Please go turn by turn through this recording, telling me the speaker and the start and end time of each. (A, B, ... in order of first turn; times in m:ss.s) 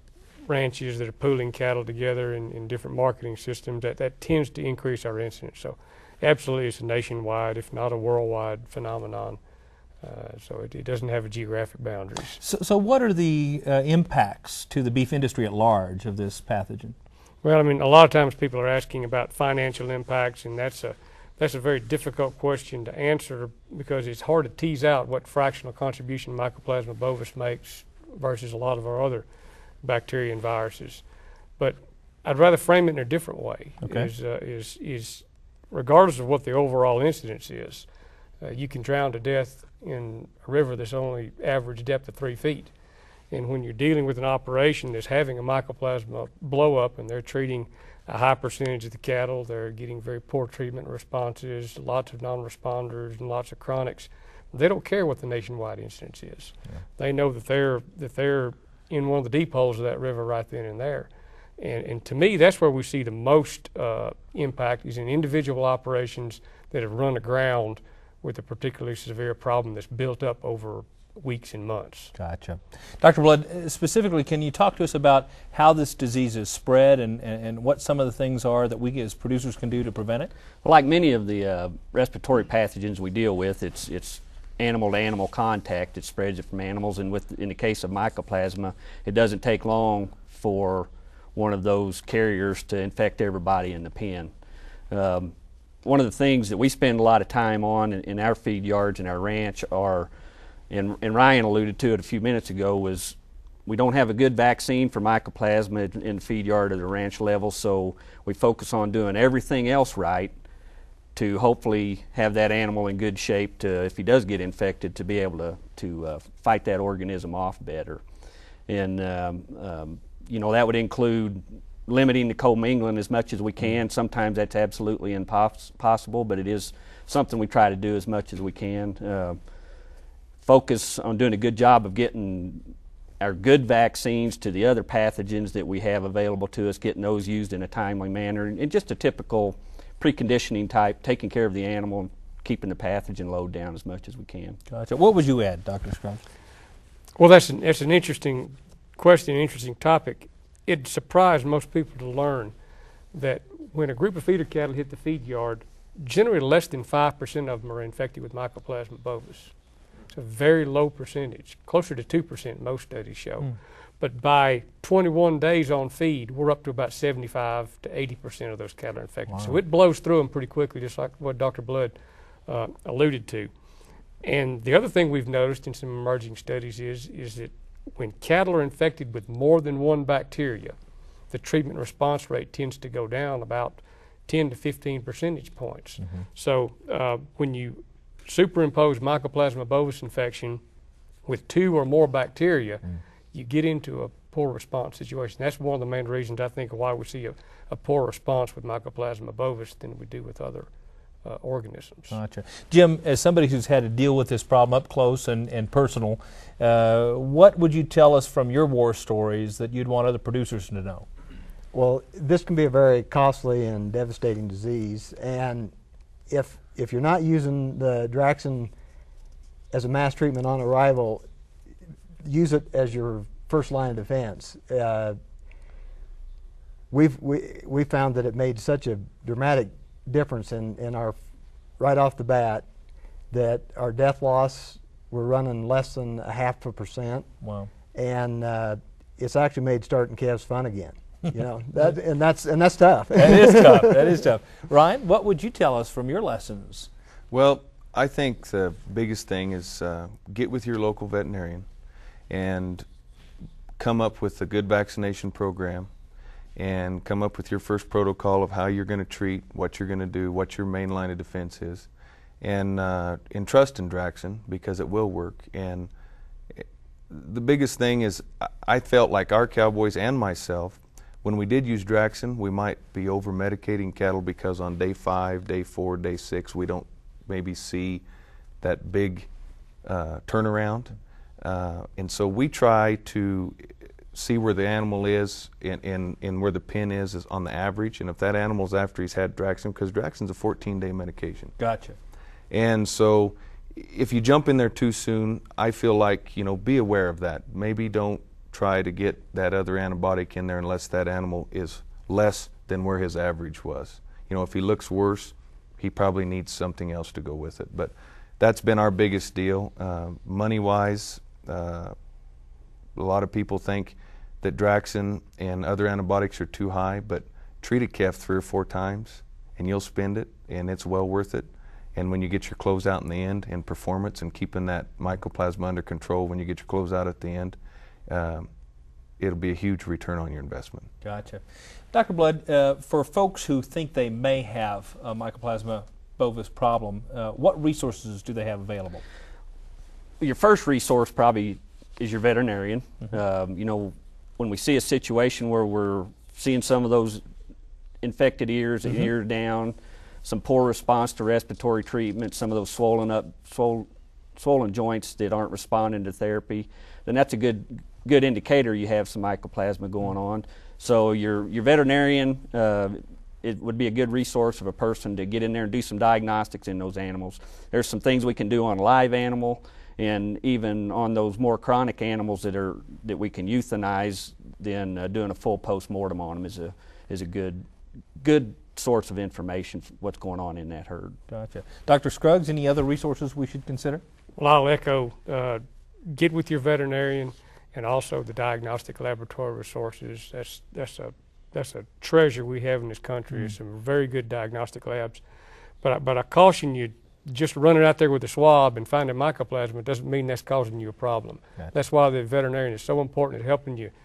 0:00.4-0:09.4 A
0:10.0-0:12.4 A
0:12.4-0:17.0 B
0:17.4-0:29.3 A
0:29.8-0:31.0 A
0:31.6-0:37.9 A
0:33.8-0:34.1 B
0:38.4-0:42.7 A
0:43.3-1:12.1 A
1:12.2-1:20.3 B
1:20.6-1:34.3 C
1:34.9-1:35.3 C
1:35.8-1:40.1 C
1:40.7-1:50.3 C
1:51.2-1:58.0 C
1:58.7-2:09.4 C
2:10.4-2:24.6 C
2:24.7-2:26.2 B
2:27.2-2:32.5 A
2:33.1-2:39.5 A
2:40.1-2:52.0 A
2:49.3-2:49.6 B
2:52.5-2:53.5 A
2:54.2-3:00.8 A
3:01.3-3:10.6 A
3:11.2-3:20.7 A
3:21.2-3:22.1 A
3:22.1-3:31.0 B
3:31.7-3:35.7 D
3:36.3-3:38.7 D
3:39.7-3:41.2 D
3:42.2-3:45.2 D
3:46.9-3:51.2 D
3:51.8-3:52.6 D
3:53.3-3:57.3 D
3:57.4-3:57.7 B
3:58.0-4:03.9 D
4:03.2-4:06.9 B
4:07.3-4:11.7 E
4:12.3-4:12.8 E
4:13.8-4:15.9 E
4:16.6-4:21.9 E
4:22.4-4:25.9 E
4:26.6-4:38.0 E
4:38.6-4:39.3 E
4:39.8-4:51.6 E
4:51.6-4:52.0 B
4:52.5-5:12.0 E
5:13.0-5:27.6 E
5:28.1-5:28.5 E
5:29.2-5:30.9 E
5:31.0-5:39.0 B
5:40.2-5:47.2 C
5:48.0-6:17.6 C
6:18.2-6:21.2 C
6:21.3-6:24.0 B
6:24.4-6:35.2 A
6:35.8-6:43.9 A